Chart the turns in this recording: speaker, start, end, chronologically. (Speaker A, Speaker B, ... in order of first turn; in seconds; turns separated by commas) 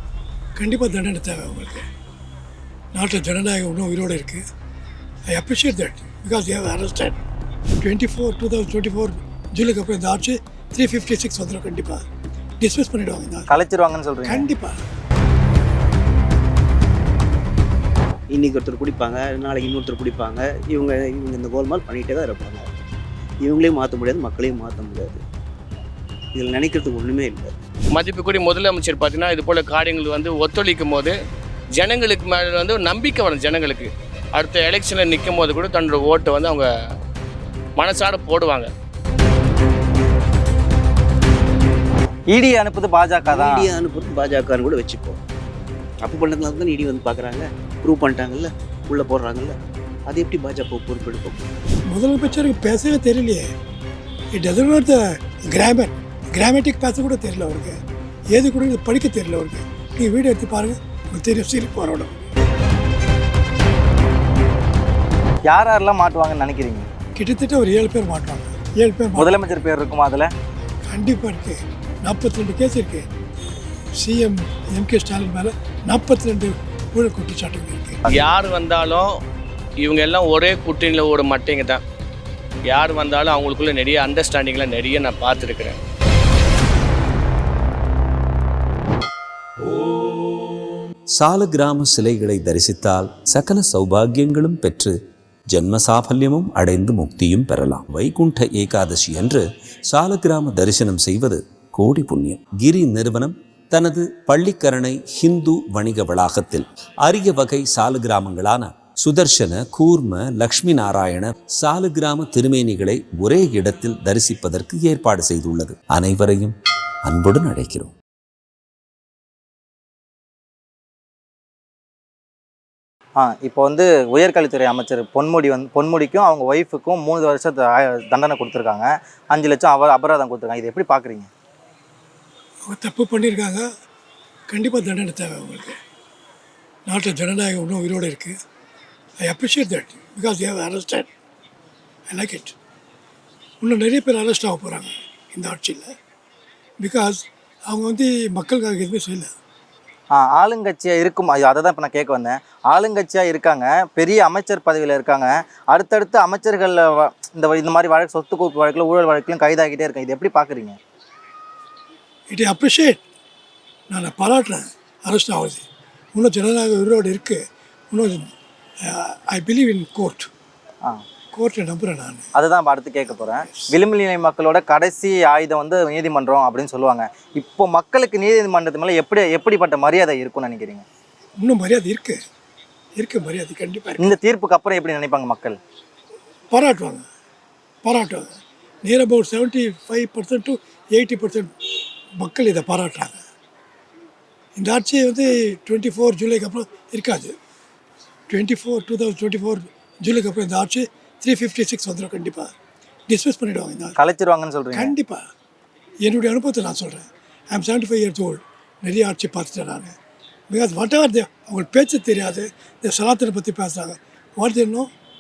Speaker A: 0.6-1.9, Speaker A: 2.9-4.4, Speaker A: 5.3-7.2, Speaker A: 7.8-12.1, Speaker A: 12.6-13.5, Speaker B: 13.5-14.5, Speaker A: 14.3-14.8, Speaker C: 18.3-22.7, Speaker C: 23.4-25.2, Speaker C: 26.3-27.6, Speaker D: 27.9-31.1, Speaker D: 31.8-36.7, Speaker D: 37.8-38.7, Speaker B: 42.3-43.7, Speaker C: 43.3-45.2, Speaker C: 46.0-49.5, Speaker C: 50.1-51.5, Speaker A: 51.9-53.5, Speaker A: 54.3-57.8, Speaker A: 58.3-62.3, Speaker B: 65.5-66.9, Speaker A: 67.2-69.5, Speaker B: 69.2-70.3, Speaker A: 70.9-73.0, Speaker A: 74.0-78.0, Speaker D: 78.1-79.1, Speaker D: 79.8-81.8, Speaker D: 82.7-85.8, Speaker E: 91.2-94.9, Speaker E: 95.5-117.9, Speaker B: 123.2-131.3, Speaker A: 132.7-133.7, Speaker A: 134.5-135.8, Speaker A: 136.9-138.4, Speaker A: 139.2-141.1, Speaker A: 142.1-142.6, Speaker A: 143.6-145.9, Speaker A: 146.8-149.3, Speaker B: 150.1-160.8, Speaker A: 162.3-163.0, Speaker A: 163.9-168.2, Speaker A: 168.8-170.3, Speaker A: 171.3-172.3, Speaker B: 172.3-180.8, Speaker A: 181.4-182.2, Speaker A: 183.0-184.1, Speaker B: 184.0-185.6, Speaker A: 186.5-187.1, Speaker A: 187.8-191.5, Speaker A: 192.2-193.2, Speaker A: 194.6-197.3, Speaker A: 198.3-202.5, Speaker A: 203.1-204.0, Speaker B: 204.0-204.9, Speaker A: 204.7-205.2, Speaker A: 206.0-209.9, Speaker A: 210.5-214.9